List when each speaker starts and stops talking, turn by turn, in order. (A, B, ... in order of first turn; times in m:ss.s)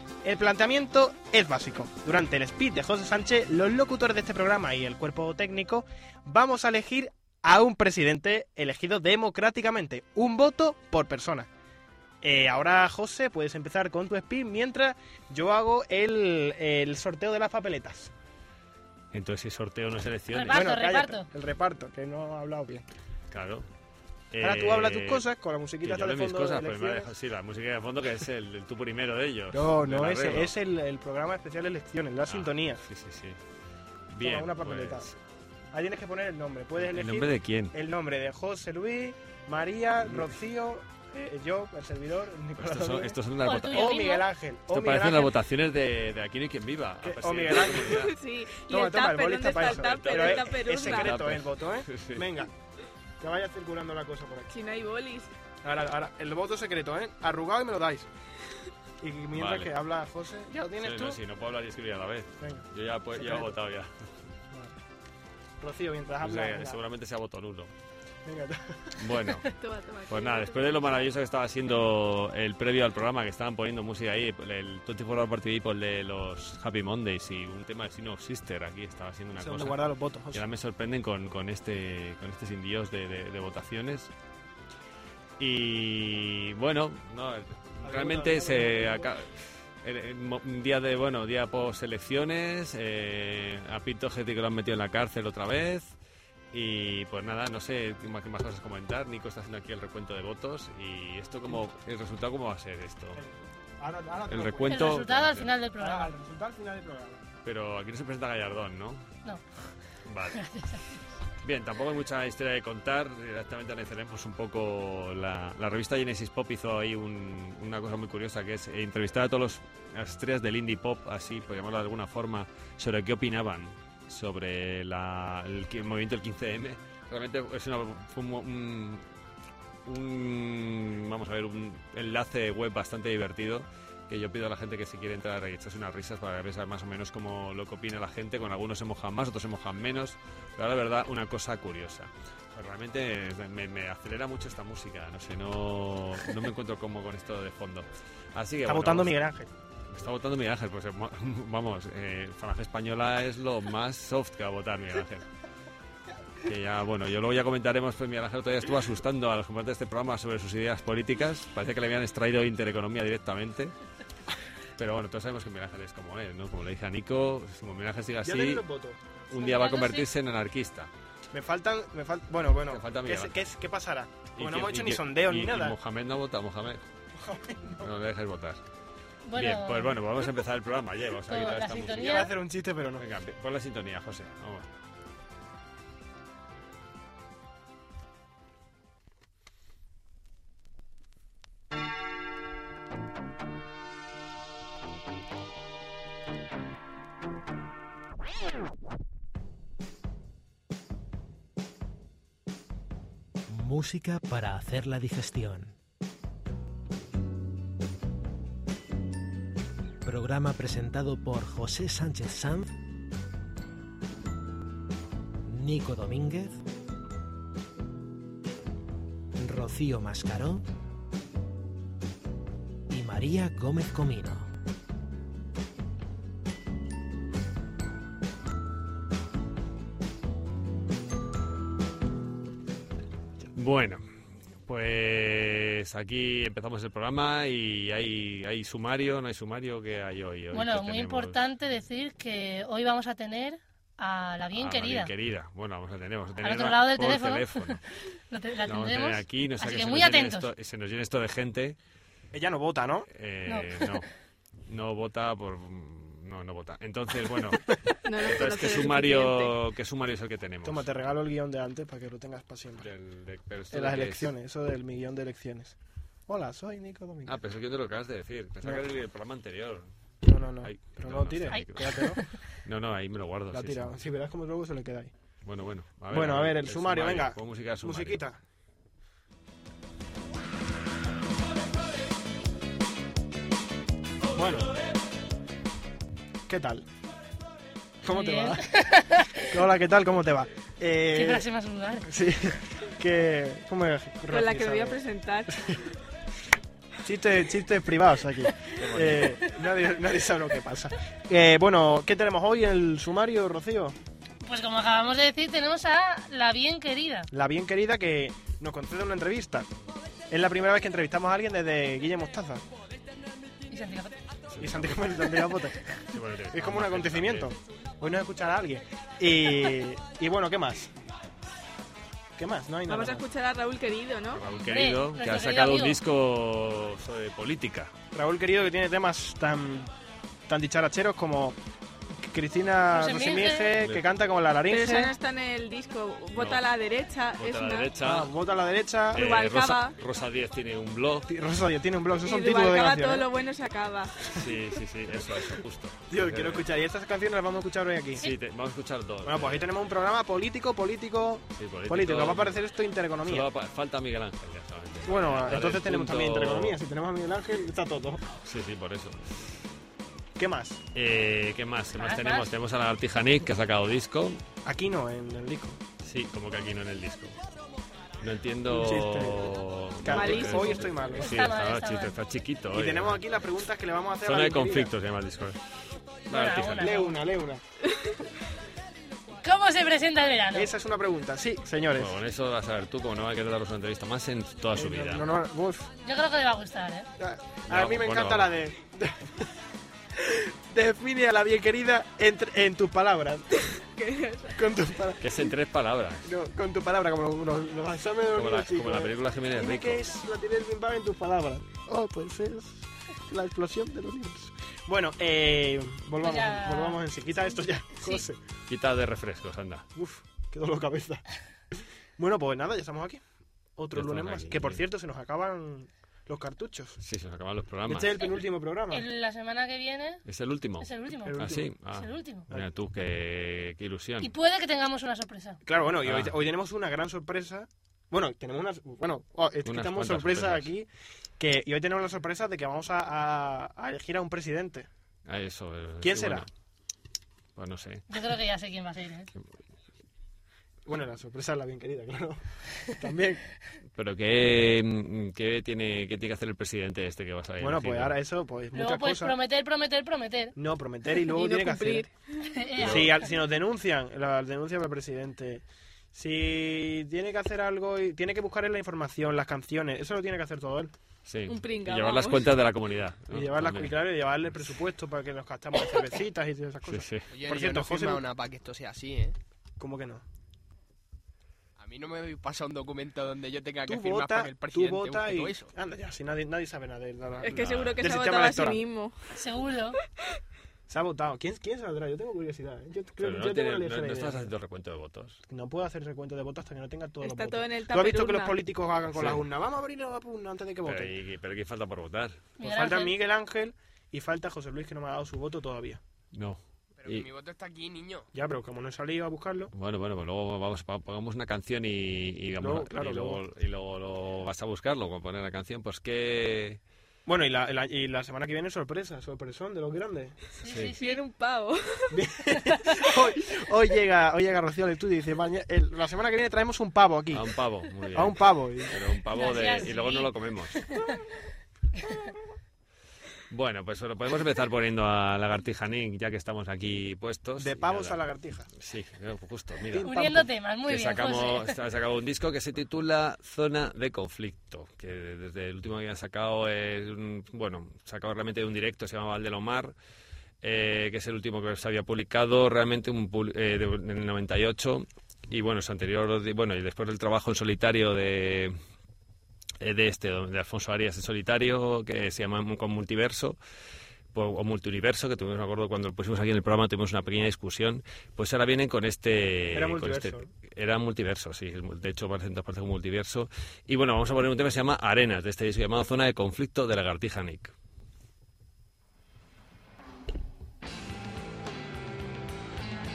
0:00.2-0:11.5 A
0:12.2-0:18.1 A
0:19.1-0:20.7 B
0:20.3-0:21.3 C
0:20.5-0:22.8 A
0:23.3-0:23.7 B
0:24.3-0:25.2 B
0:24.4-0:27.1 A
0:25.8-0:30.5 B
0:29.5-0:32.8 A
0:32.3-0:33.4 B
0:34.1-0:35.2 B
0:34.2-0:35.1 A
0:35.7-0:43.2 A
0:36.8-0:37.7 B
0:42.6-0:43.9 B
0:43.4-0:44.3 C
0:43.7-0:45.3 A
0:44.7-0:48.1 B
0:47.0-0:48.1 A
0:47.8-0:51.2 D
0:48.6-0:52.5 A
0:49.9-0:52.3 B
0:53.2-0:54.5 A
0:54.5-0:55.3 D
0:55.6-0:58.1 A
0:59.0-1:01.2 A
0:59.3-0:59.7 B
1:00.8-1:03.9 B
1:02.4-1:03.6 A
1:04.5-1:04.8 A
1:05.6-1:06.8 A
1:06.2-1:07.7 B
1:08.2-1:09.0 A
1:09.0-1:09.5 B
1:09.5-1:11.1 D
1:10.1-1:24.1 B
1:19.4-1:20.4 A
1:25.4-1:36.0 B
1:27.8-1:29.1 A
1:36.5-1:43.2 B
1:43.2-1:45.1 A
1:44.3-1:45.5 B
1:44.7-1:46.1 C
1:45.8-1:47.2 A
1:47.4-1:49.0 B
1:50.0-1:50.8 B
1:50.4-1:50.8 C
1:51.4-2:09.1 B
2:09.9-2:29.2 B
2:28.7-2:29.5 A
2:29.9-2:35.3 B
2:36.4-2:43.7 B
2:44.8-2:48.6 B
2:48.2-2:49.0 A
2:49.3-2:50.9 B
2:49.4-2:50.1 C
2:51.3-2:55.8 A
2:52.7-2:53.3 B
2:54.4-2:56.8 B
2:57.2-2:57.9 A
2:57.8-2:58.6 B
2:59.2-3:00.0 C
2:59.4-3:02.2 B
3:01.3-3:02.3 C
3:01.9-3:03.0 A
3:03.0-3:04.7 B
3:23.5-3:25.8 E
3:30.0-3:32.8 E
3:35.5-3:36.6 E
3:39.4-3:40.7 E
3:42.9-3:44.5 E
3:53.6-3:54.0 B
3:54.7-4:01.4 B
4:00.5-4:05.1 C
4:04.5-4:07.8 B
4:06.4-4:10.5 C
4:08.6-4:11.8 B
4:12.3-4:13.1 A
4:13.1-4:14.1 B
4:13.5-4:14.0 C
4:14.7-4:20.9 B
4:18.0-4:19.6 D
4:20.6-4:22.9 A
4:22.8-4:24.3 B
4:23.7-4:25.8 A
4:26.3-4:27.4 A
4:27.3-4:29.9 B
4:30.2-4:32.2 A
4:30.6-4:33.9 B
4:31.5-4:32.4 C
4:33.5-4:35.1 A
4:35.4-4:38.2 B
4:36.1-4:38.4 A
4:44.4-4:44.7 A
4:46.5-4:46.9 A
4:48.0-4:48.7 A
4:48.1-4:49.6 C
4:49.5-4:51.5 A
4:51.1-4:52.1 C
4:52.0-4:55.8 A
4:54.3-4:55.5 D
4:57.0-5:04.0 A
4:58.8-4:59.4 B
5:04.4-5:07.3 C
5:07.3-5:09.7 A
5:10.3-5:12.6 A
5:13.7-5:14.2 C
5:14.5-5:15.0 B
5:14.6-5:15.9 A
5:16.1-5:17.5 B
5:16.5-5:20.9 A
5:22.4-5:23.2 A
5:22.9-5:24.4 D
5:24.3-5:27.9 B
5:24.6-5:26.0 C
5:28.1-5:29.9 A
5:30.5-5:31.6 A
5:32.2-5:35.1 A
5:32.9-5:33.8 C
5:34.7-5:37.9 D
5:36.3-5:36.6 B
5:37.4-5:38.3 B
5:38.0-5:39.2 A
5:39.1-5:40.0 D
5:39.1-5:41.3 B
5:41.3-5:43.3 A
5:42.2-5:44.3 D
5:44.3-5:46.7 B
5:46.1-5:48.2 A
5:48.2-5:49.7 B
5:49.2-5:53.5 A
5:51.5-5:52.6 B
5:53.2-5:56.8 B
5:55.1-5:58.2 A
5:58.4-5:59.5 B
6:00.4-6:00.8 A
6:00.9-6:04.4 B
6:02.0-6:02.5 C
6:04.6-6:05.8 A
6:06.0-6:07.4 B
6:08.2-6:13.2 B
6:08.7-6:09.5 A
6:10.0-6:11.3 A
6:10.1-6:10.9 D
6:11.2-6:12.2 C
6:12.7-6:14.9 A
6:14.2-6:15.7 B
6:16.3-6:17.1 B
6:16.3-6:17.2 C
6:16.8-6:17.6 A
6:19.4-6:20.7 C
6:20.5-6:22.2 A
6:22.0-6:25.3 B
6:24.8-6:25.9 A
6:26.0-6:27.1 C
6:27.2-6:29.5 A
6:27.7-6:28.6 B
6:30.2-6:33.7 A
6:33.9-6:34.6 D
6:34.6-6:35.2 A
6:35.2-6:36.3 B
6:36.2-6:48.4 A
6:38.4-6:40.0 B
6:46.2-6:47.0 C
6:48.7-6:49.9 B
6:49.9-6:51.2 A
6:52.2-6:53.2 A
6:53.8-6:57.0 A
6:53.9-6:54.8 B
6:57.0-6:58.3 B
6:57.9-6:59.0 A
6:58.9-7:00.2 C
7:00.2-7:04.3 B
7:00.8-7:02.5 C
7:01.2-7:01.7 A
7:04.2-7:05.6 C
7:05.6-7:10.9 A
7:06.0-7:06.4 B
7:09.6-7:10.7 B
7:11.4-7:14.9 A
7:15.3-7:16.5 B
7:16.0-7:16.5 A
7:17.6-7:18.1 B
7:18.1-7:19.3 C
7:20.9-7:23.4 A
7:23.9-7:28.1 B
7:27.6-7:29.4 A
7:28.7-7:30.6 C
7:30.6-7:32.1 A
7:31.2-7:32.5 D
7:32.5-7:33.3 C
7:32.8-7:40.9 A
7:41.2-7:44.1 B
7:41.5-7:42.5 D
7:43.3-7:48.2 A
7:46.9-7:47.2 B
7:47.3-7:49.4 F
7:49.8-7:50.2 A
7:51.8-7:55.7 F
7:53.9-7:58.8 A
7:57.4-7:59.3 D
7:57.5-7:58.0 B
7:59.4-8:00.0 C
8:00.9-8:04.5 A
8:03.2-8:05.4 B
8:05.5-8:11.1 A
8:07.2-8:08.6 D
8:09.1-8:09.4 B
8:10.8-8:12.5 B
8:12.6-8:13.1 C
8:12.6-8:16.0 A
8:16.3-8:17.3 B
8:17.0-8:18.3 F
8:18.3-8:19.7 A
8:19.8-8:26.8 B
8:22.6-8:23.4 A
8:27.3-8:30.3 A
8:30.6-8:31.2 C
8:30.7-8:31.0 B
8:31.0-8:32.2 D
8:32.1-8:37.4 A
8:37.3-8:40.8 B
8:38.1-8:38.9 A
8:39.3-8:41.1 C
8:43.5-8:48.2 B
8:47.6-8:48.7 A
8:48.8-8:50.3 B
8:49.9-8:50.4 A
8:50.0-8:51.7 C
8:50.8-8:59.9 B
9:00.6-9:08.8 B
9:09.8-9:13.6 B
9:14.3-9:27.7 B
9:19.7-9:20.5 A